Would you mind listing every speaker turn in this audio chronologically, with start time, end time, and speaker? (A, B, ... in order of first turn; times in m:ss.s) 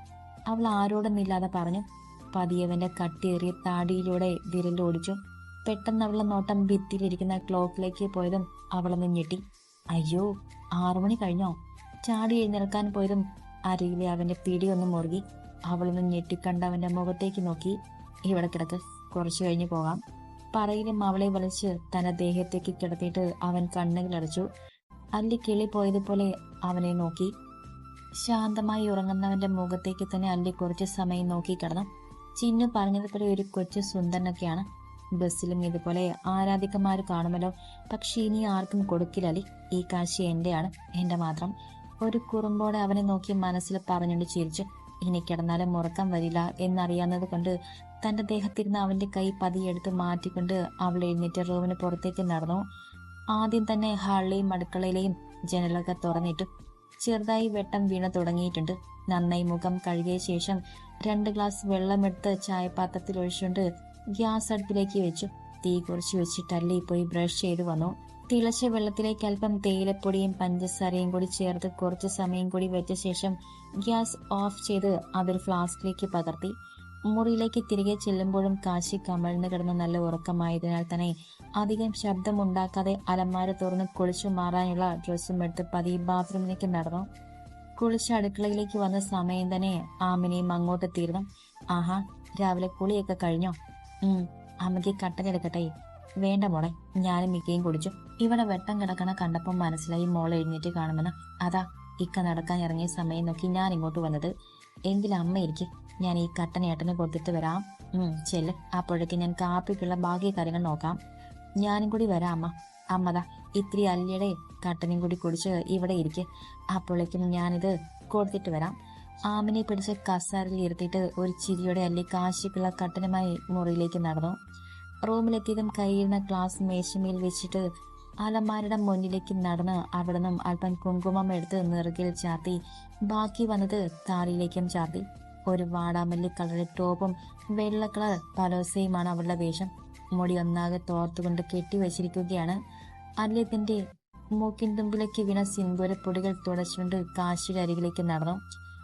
0:00.5-0:09.4 A
0:09.9-0:10.3 A
0:10.8-0:11.5 A
0:12.0-0:17.8 A
0:18.3-0:20.0 A
0:20.5-0:24.5 A
0:25.2-0:27.3 A
0:28.2-0:31.9 A
0:32.4-0:34.6 A
0:35.2-0:52.6 A
0:53.3-0:56.5 A
0:57.0-1:03.6 A
1:04.2-1:16.5 A
1:17.1-1:27.1 A
1:27.8-1:35.7 A
1:36.2-1:44.3 A
1:44.9-1:51.0 A
1:51.6-1:58.8 A
1:59.3-2:04.4 A
2:05.1-2:07.6 A
2:08.2-2:22.6 A
2:23.2-2:23.8 A
2:24.4-2:28.4 A